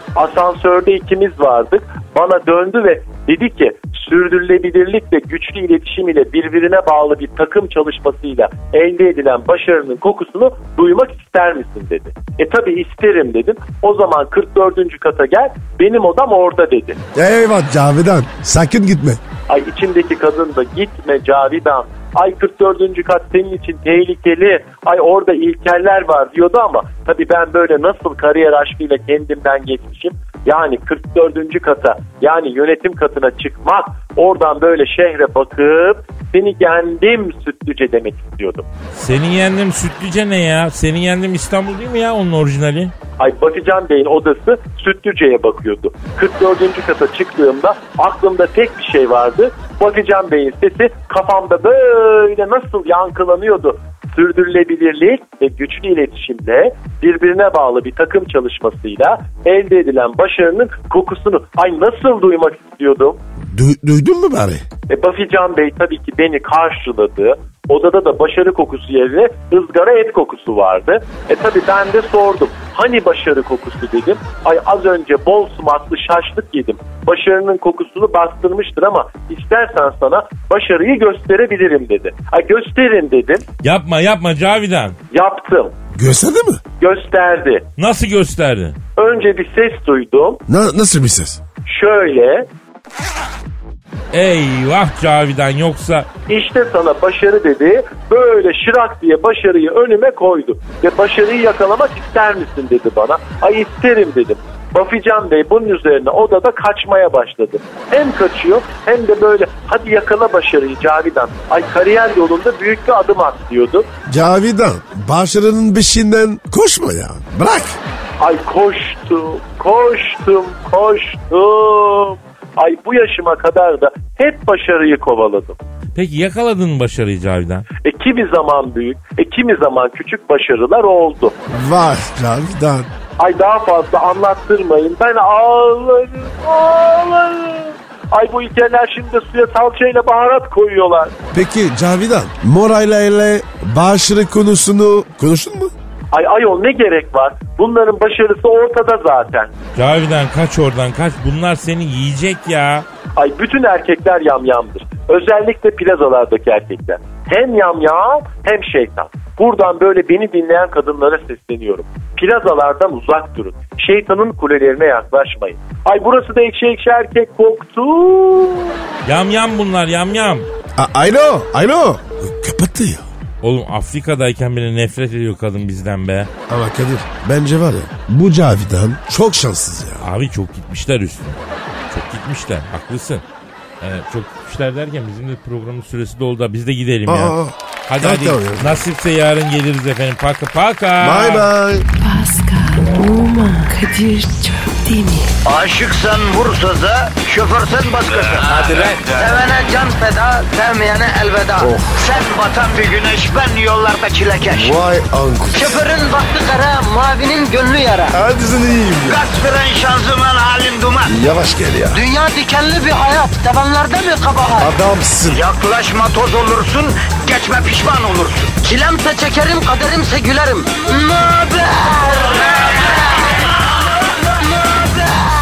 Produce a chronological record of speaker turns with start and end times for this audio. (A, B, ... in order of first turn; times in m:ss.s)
0:00.2-0:17.0 A
0:17.1-0:19.2 B
0:19.5-0:38.7 A
0:38.9-0:42.9 C
0:43.2-1:03.2 A
1:03.5-1:04.6 B
1:04.9-1:23.4 A
1:23.6-1:25.0 C
1:25.1-1:25.7 A
1:25.9-1:26.6 B
1:26.8-1:27.6 A
1:27.8-1:28.8 C
1:29.0-1:30.4 A
1:30.5-1:31.4 B
1:31.6-1:32.5 A
1:34.1-1:36.1 C
1:36.3-1:53.9 A
1:54.1-1:57.8 B
1:58.2-2:05.6 A
2:05.9-2:07.7 C
2:07.8-2:11.4 A
2:11.5-2:12.9 B
2:13.2-2:21.1 A
2:21.3-2:25.7 B
2:26.1-2:29.5 A
2:29.8-2:32.9 C
2:33.2-2:48.9 A
2:49.0-2:50.5 C
2:50.8-2:53.1 B
2:53.4-2:56.3 C
2:56.5-3:00.0 B
3:00.0-3:01.4 C
3:01.9-3:03.2 C
3:03.8-3:07.4 C
3:07.1-3:08.8 B
3:07.9-3:11.5 C
3:11.0-3:11.9 B
3:12.0-3:15.3 D
3:15.4-3:24.8 E
3:18.5-3:19.2 B
3:21.6-3:22.1 B
3:24.5-3:25.8 B
3:25.5-3:28.2 E
3:28.1-3:29.2 B
3:29.0-3:31.1 E
3:31.0-3:32.0 B
3:31.9-3:34.7 E
3:34.6-3:35.4 B
3:35.3-3:43.0 E
3:44.6-3:45.3 E